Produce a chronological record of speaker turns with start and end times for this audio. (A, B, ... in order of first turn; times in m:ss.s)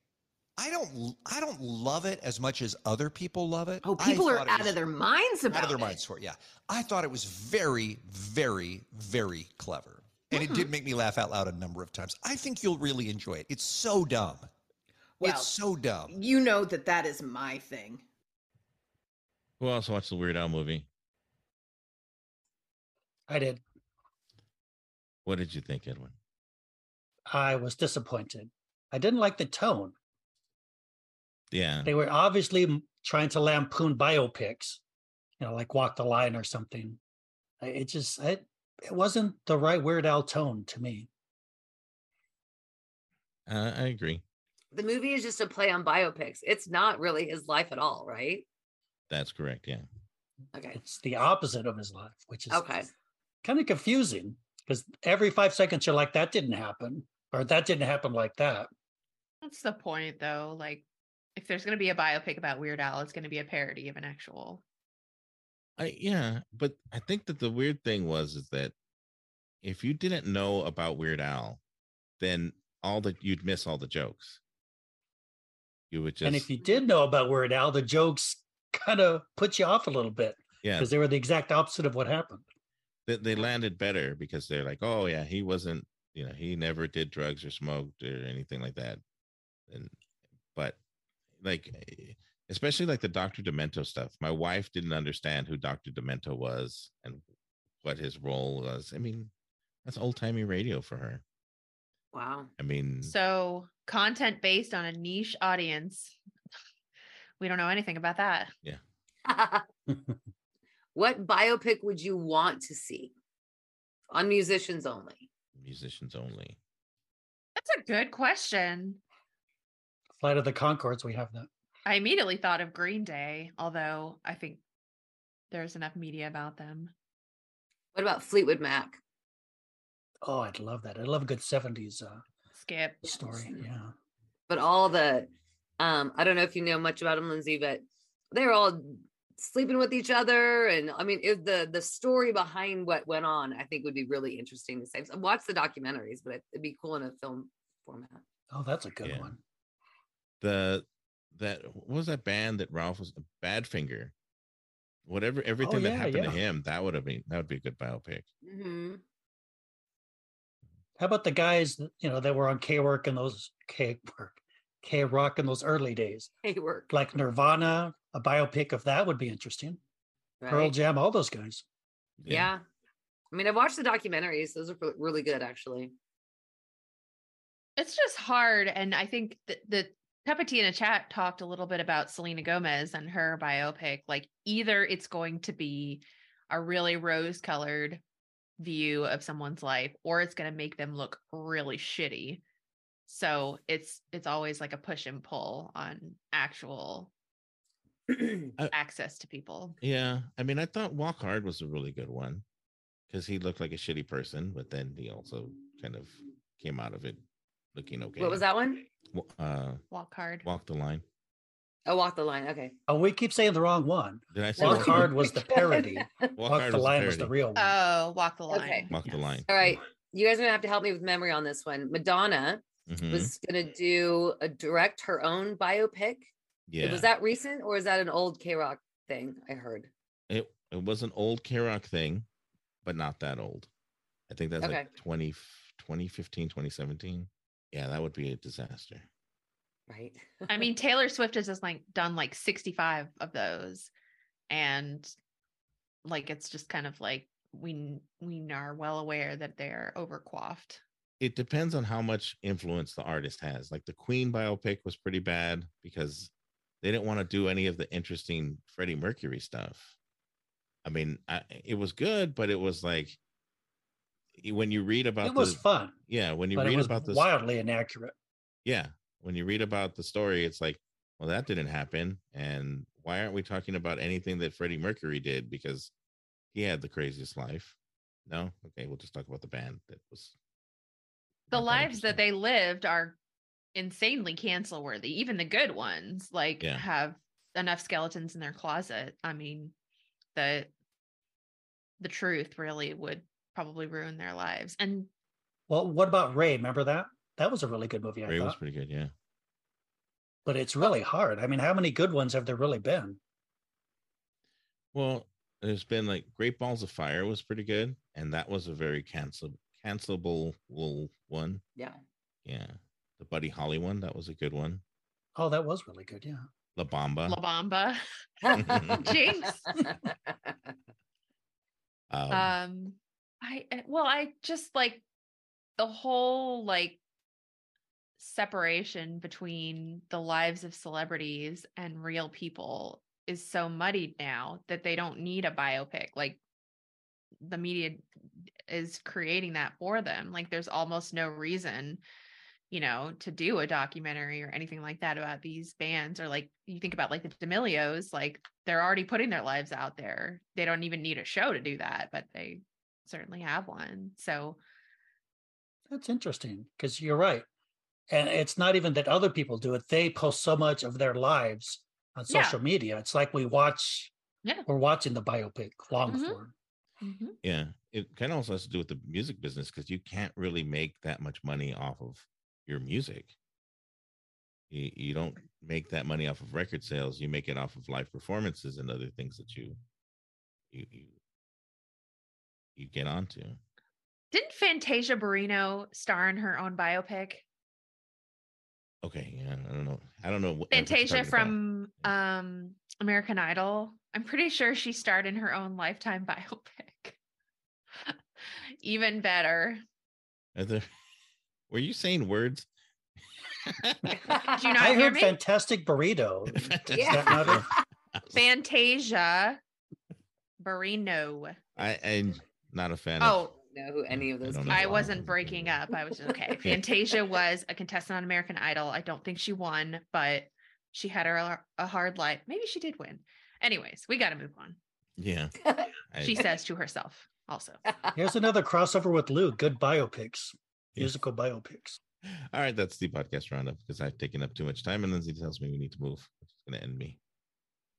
0:00.6-0:04.8 A
0:03.8-0:06.0 B
0:05.5-0:14.5 A
0:10.3-0:10.7 B
0:15.2-0:18.0 B
0:15.2-0:16.1 A
0:19.6-0:20.9 C
0:23.3-0:23.6 D
0:25.2-0:26.1 C
0:27.3-0:29.9 D
0:31.5-0:31.9 C
0:31.8-0:34.8 D
0:35.4-0:37.0 D
0:37.6-0:41.1 D
0:43.5-0:44.2 C
0:44.7-0:48.4 E
0:49.1-0:49.8 C
0:50.5-0:50.8 E
0:50.8-0:52.6 D
0:52.5-0:52.9 E
0:53.4-0:58.7 D
0:59.4-1:00.8 F
1:01.4-1:04.6 F
1:05.8-1:08.7 C
1:09.6-1:11.6 C
1:12.2-1:14.4 C
1:15.9-1:16.5 C
1:16.2-1:22.4 D
1:20.6-1:20.9 C
1:23.1-1:29.0 C
1:29.7-1:29.9 C
1:31.4-1:37.2 C
1:37.8-1:39.3 C
1:39.8-1:41.2 C
1:42.1-1:42.5 E
1:42.6-1:43.1 C
1:43.0-1:46.2 F
1:47.4-1:48.5 F
1:49.2-1:49.6 E
1:50.9-1:53.1 E
1:54.1-1:55.3 E
1:55.6-1:56.6 C
1:57.6-1:59.0 F
2:00.2-2:01.5 D
2:01.8-2:04.6 F
2:05.5-2:06.9 F
2:07.9-2:09.0 E
2:10.2-2:12.2 D
2:12.5-2:13.2 F
2:13.0-2:13.9 D
2:14.5-2:28.2 E
2:28.5-2:29.4 D
2:29.0-2:29.3 C
2:30.4-2:34.1 C
2:35.0-2:38.3 C
2:35.6-2:36.4 D
2:38.4-2:39.0 E
2:41.0-2:46.3 D
2:46.4-2:46.9 E
2:46.9-2:49.8 D
2:50.4-2:50.7 E
2:50.5-2:51.6 D
2:52.2-2:52.5 C
2:52.3-2:52.6 E
2:53.3-2:55.9 E
2:57.8-3:08.0 F
3:08.6-3:12.4 F
3:13.1-3:17.1 F
3:18.7-3:19.8 F
3:19.8-3:22.4 C
3:23.1-3:27.2 C
3:27.7-3:28.4 C
3:28.2-3:28.8 E
3:29.1-3:29.8 C
3:29.9-3:30.4 F
3:30.4-3:31.0 C
3:31.8-3:32.7 E
3:32.9-3:37.7 D
3:34.3-3:35.2 C
3:34.6-3:36.3 E
3:36.4-3:37.3 C
3:37.6-3:38.9 F
3:38.5-3:38.9 E
3:38.9-3:39.5 C
3:39.5-3:46.3 E
3:42.9-3:43.3 C
3:46.7-3:47.1 C
3:46.8-3:49.9 E
3:50.3-3:52.3 C
3:52.8-3:53.7 C
3:54.3-3:59.0 C
3:54.6-3:54.9 E
3:59.9-4:00.6 E
4:00.5-4:03.9 F
4:04.5-4:05.1 F
4:06.0-4:10.8 F
4:11.2-4:16.3 C
4:16.8-4:19.9 C
4:20.8-4:23.2 C
4:24.4-4:27.3 C
4:25.2-4:26.0 D
4:26.5-4:28.1 D
4:28.6-4:35.9 C
4:36.5-4:37.8 C
4:38.3-4:40.3 C
4:41.5-4:42.2 C
4:41.5-4:43.2 F
4:43.7-4:49.7 F
4:50.3-4:50.7 F
4:52.0-4:55.1 F
4:55.7-4:58.6 D
4:58.3-4:59.1 C
5:00.4-5:03.2 D
5:04.9-5:11.6 C
5:12.4-5:14.8 C
5:15.4-5:16.5 D
5:16.8-5:17.4 C
5:17.3-5:18.0 F
5:18.4-5:20.5 E
5:18.5-5:19.1 C
5:18.9-5:19.7 F
5:22.1-5:22.6 C
5:22.3-5:25.0 F
5:25.8-5:27.0 F
5:28.2-5:36.4 F
5:37.4-5:38.0 F
5:38.7-5:42.0 F
5:42.7-5:54.6 F
5:55.9-5:57.4 D
5:58.1-6:04.1 D
6:02.3-6:02.6 F
6:04.7-6:06.5 D
6:06.1-6:06.4 F
6:07.0-6:07.4 F
6:07.4-6:13.3 C
6:14.7-6:19.8 C
6:20.7-6:21.1 C
6:22.8-6:23.6 C
6:24.3-6:27.4 F
6:29.0-6:31.6 C
6:30.7-6:37.2 F
6:38.8-6:39.8 F
6:40.6-6:40.9 C
6:41.7-6:42.7 C
6:43.7-6:44.0 C
6:44.2-6:44.7 E
6:44.4-6:45.4 F
6:44.8-6:47.6 D
6:46.6-6:47.6 C
6:46.9-6:47.7 E
6:48.3-6:49.6 F
6:50.6-6:51.6 F
6:51.8-6:53.4 C
6:53.2-6:53.5 F
6:53.6-6:55.2 E
6:54.1-6:55.8 C
6:54.7-7:04.8 F
6:56.2-6:56.5 E
7:05.2-7:05.5 C
7:05.6-7:05.9 E
7:06.1-7:06.5 C
7:06.2-7:07.8 F
7:08.2-7:12.0 D
7:12.3-7:17.2 C